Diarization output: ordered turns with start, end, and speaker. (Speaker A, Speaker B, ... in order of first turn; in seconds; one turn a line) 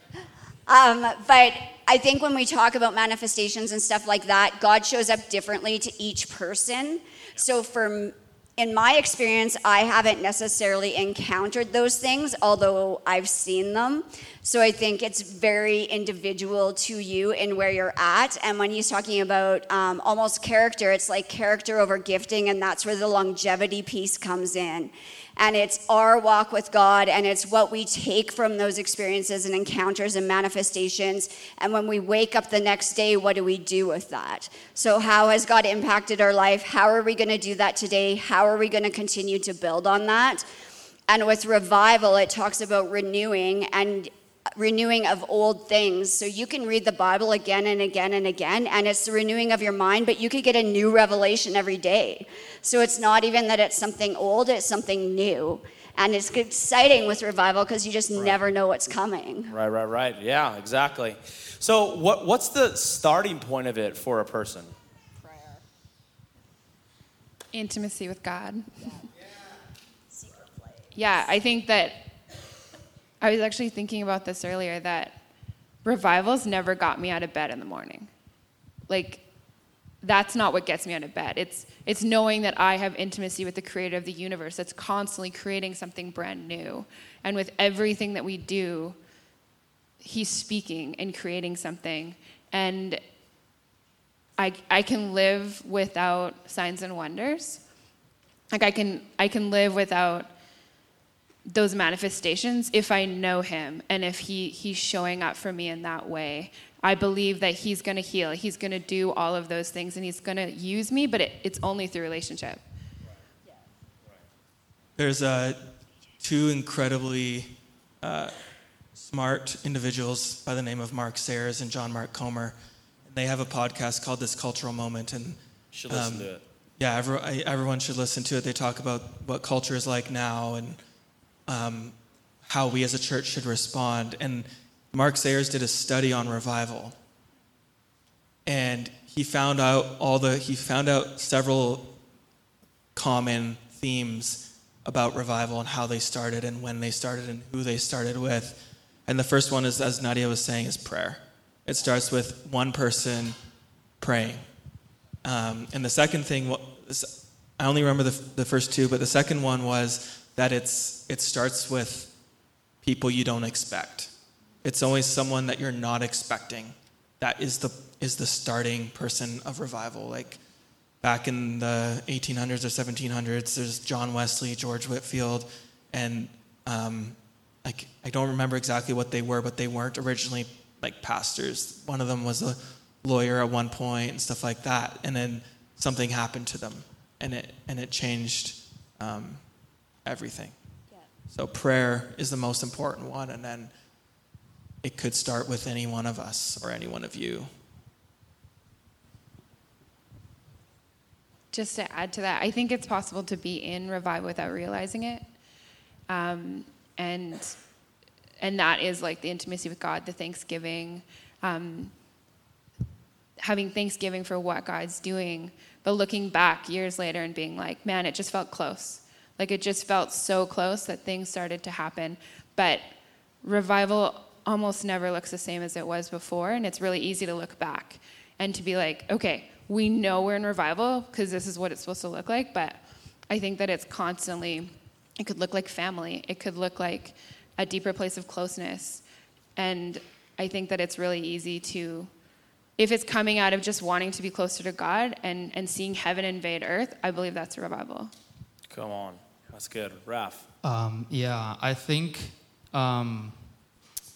Speaker A: 0.7-40.5
Speaker A: 41.1-59.5
Speaker B: 58.1-58.4
Speaker B: 59.5-64.7
Speaker A: 65.2-65.6
Speaker C: 67.5-69.0
Speaker A: 70.1-71.2
Speaker C: 70.9-72.1
Speaker C: 73.2-75.2
Speaker C: 75.8-78.1
Speaker C: 78.9-79.2
Speaker C: 80.0-89.0
Speaker C: 90.0-93.0
Speaker C: 94.4-97.6
Speaker C: 98.5-100.3
Speaker C: 101.5-112.6
Speaker D: 115.0-115.7
Speaker D: 116.2-118.3
Speaker D: 118.9-125.4
Speaker B: 125.7-126.4
Speaker D: 125.9-130.8
Speaker D: 131.5-136.9
Speaker D: 138.4-141.9
Speaker D: 142.9-153.3
Speaker D: 154.0-154.4
Speaker D: 155.2-162.1
Speaker D: 162.8-164.1
Speaker D: 164.6-170.4
Speaker D: 171.0-189.4
Speaker D: 190.0-190.5
Speaker D: 191.3-193.7
Speaker D: 194.8-197.5
Speaker C: 201.5-205.3
Speaker C: 206.1-207.6
Speaker C: 208.4-211.9
Speaker C: 213.4-222.8
Speaker C: 223.4-239.0
Speaker C: 239.6-242.1
Speaker C: 242.8-248.1
Speaker B: 248.7-250.5
Speaker E: 250.6-253.5